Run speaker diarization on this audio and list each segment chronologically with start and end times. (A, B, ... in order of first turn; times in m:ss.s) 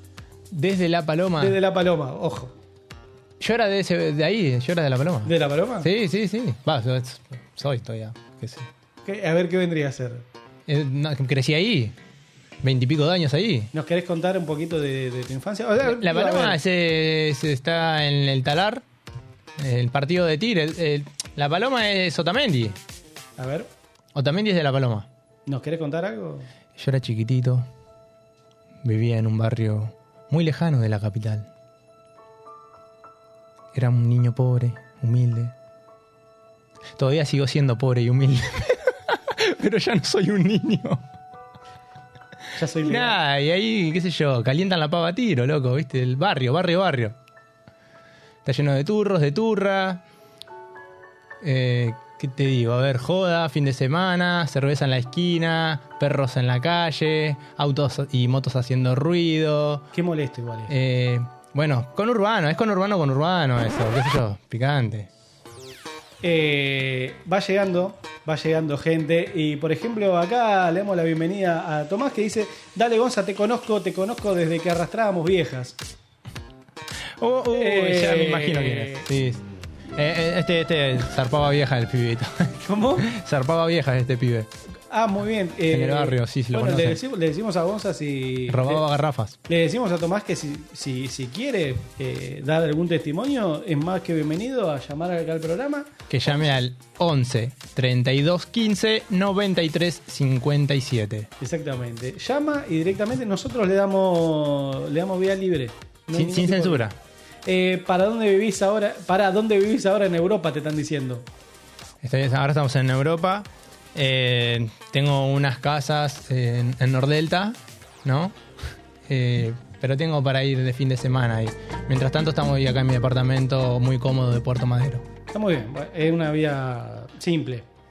0:00.5-0:01.6 A
0:01.4-0:02.5 B
0:03.4-0:08.7 A
0:05.3-0:05.9 B
0:09.0-0:10.2 B
0:10.7-0:12.0 A
0:12.6-0:13.7 A
0:13.7-0:16.6 B
0:15.8-0:18.8 A
0:19.6-0:22.8 A
0:23.4-0:23.7 B
0:24.2-0:25.1 A
0:25.5-0:26.5 B
0:26.8-0:27.7 A
0:28.8-0:31.5 A
0:33.7-0:35.5 A
0:37.0-0:41.0 A
0:42.6-0:43.2 B
0:42.8-0:47.2 A
0:48.4-0:50.0 A
0:51.4-0:59.9 A
0:59.9-1:00.7 B
1:00.7-1:05.1 A
1:06.2-1:15.8 B
1:17.2-1:19.4 A
1:17.5-1:19.1 B
1:20.0-1:24.5 A
1:22.6-1:23.1 B
1:24.9-1:28.8 B
1:25.7-1:27.0 A
1:28.5-1:29.4 A
1:29.5-1:35.9 B
1:36.1-1:41.3 A
1:41.4-1:46.8 B
1:46.1-1:47.0 A
1:47.4-1:51.3 B
1:52.0-1:58.4 A
1:59.1-2:05.0 A
2:05.3-2:07.7 B